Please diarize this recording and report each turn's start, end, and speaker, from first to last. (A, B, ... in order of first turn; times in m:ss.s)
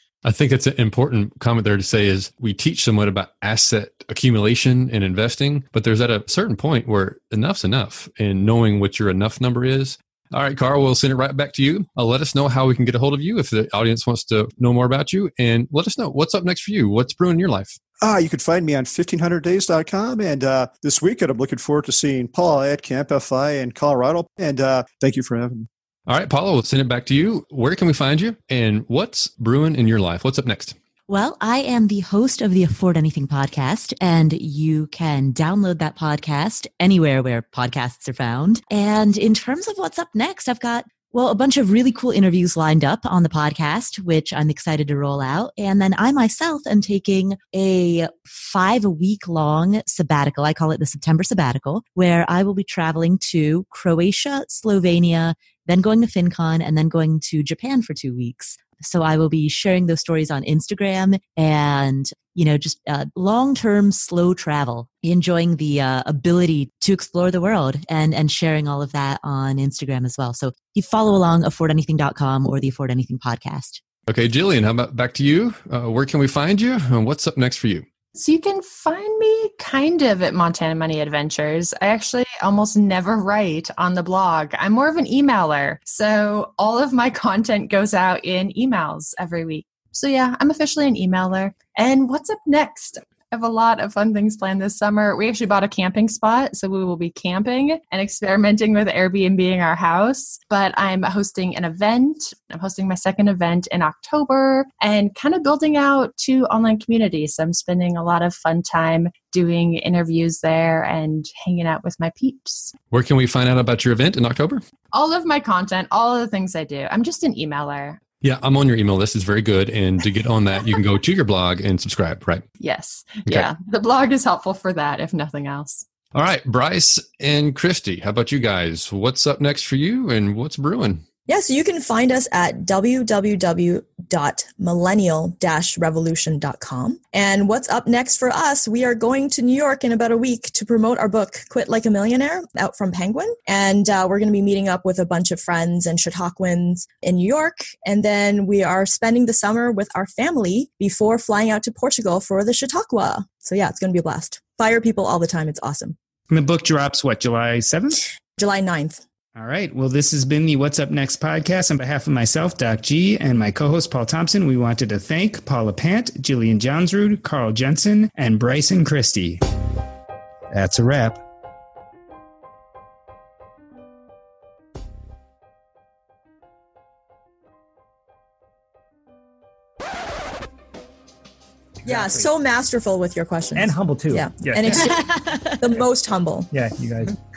0:00.2-0:17.8 A
0:18.0-0:25.7 B
0:26.1-0:30.8 A
0:31.1-1:13.8 C
1:14.1-1:17.8 A
1:18.1-1:52.7 D
1:52.9-1:54.6 A
1:54.9-1:58.0 D
1:58.2-2:02.4 A
2:02.6-2:05.8 D
2:06.1-2:11.0 A
2:11.3-2:36.0 E
2:36.3-2:38.1 F
2:38.3-2:39.0 E
2:39.3-2:49.4 F
2:50.5-2:51.2 F
3:01.8-3:06.5 E
3:01.8-3:02.2 F
3:03.6-3:05.0 G
3:04.8-3:05.6 C
3:06.5-3:07.2 G